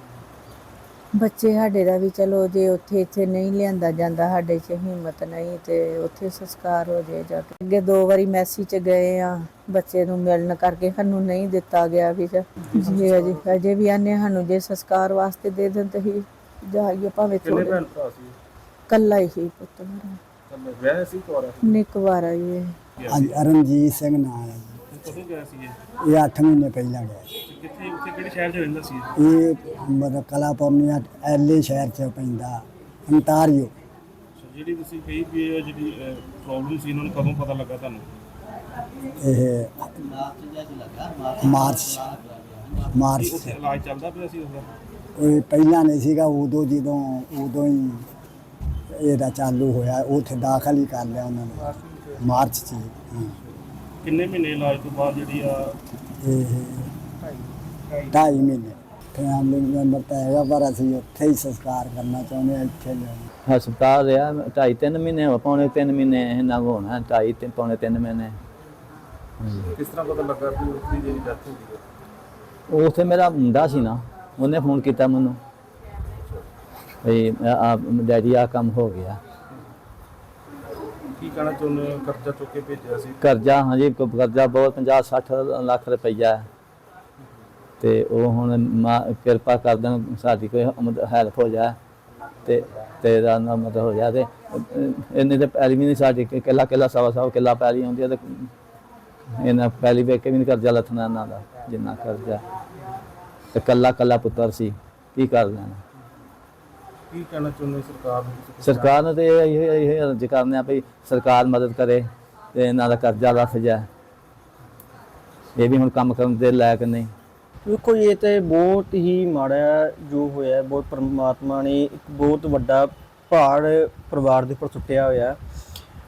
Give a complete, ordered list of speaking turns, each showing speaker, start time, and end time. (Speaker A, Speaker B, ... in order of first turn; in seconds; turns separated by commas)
Speaker A: 1.2-17.8, Speaker B: 12.7-13.5, Speaker B: 17.4-18.4, Speaker A: 18.9-20.2, Speaker B: 20.5-21.8, Speaker A: 21.6-22.7, Speaker B: 23.0-23.3, Speaker C: 23.1-24.8, Speaker B: 24.9-25.8, Speaker C: 26.0-27.3, Speaker B: 27.5-29.1, Speaker C: 29.2-33.7, Speaker B: 34.4-38.0, Speaker C: 39.2-39.9, Speaker D: 40.2-41.4, Speaker C: 41.4-42.1, Speaker C: 42.9-43.6, Speaker B: 43.1-44.7, Speaker C: 45.2-48.1, Speaker C: 48.9-53.4, Speaker B: 51.7-52.2, Speaker B: 54.0-55.8, Speaker C: 56.2-56.9, Speaker B: 57.2-58.2, Speaker C: 58.1-63.3, Speaker D: 63.5-68.3, Speaker D: 69.4-69.7, Speaker B: 69.8-71.8, Speaker D: 72.7-75.4, Speaker D: 77.0-79.2, Speaker B: 81.2-83.2, Speaker D: 83.2-86.5, Speaker D: 87.8-91.8, Speaker D: 92.5-98.5, Speaker D: 99.4-102.4, Speaker D: 103.5-105.8, Speaker B: 107.1-109.0, Speaker D: 108.6-113.9, Speaker D: 115.6-117.1, Speaker E: 117.7-125.4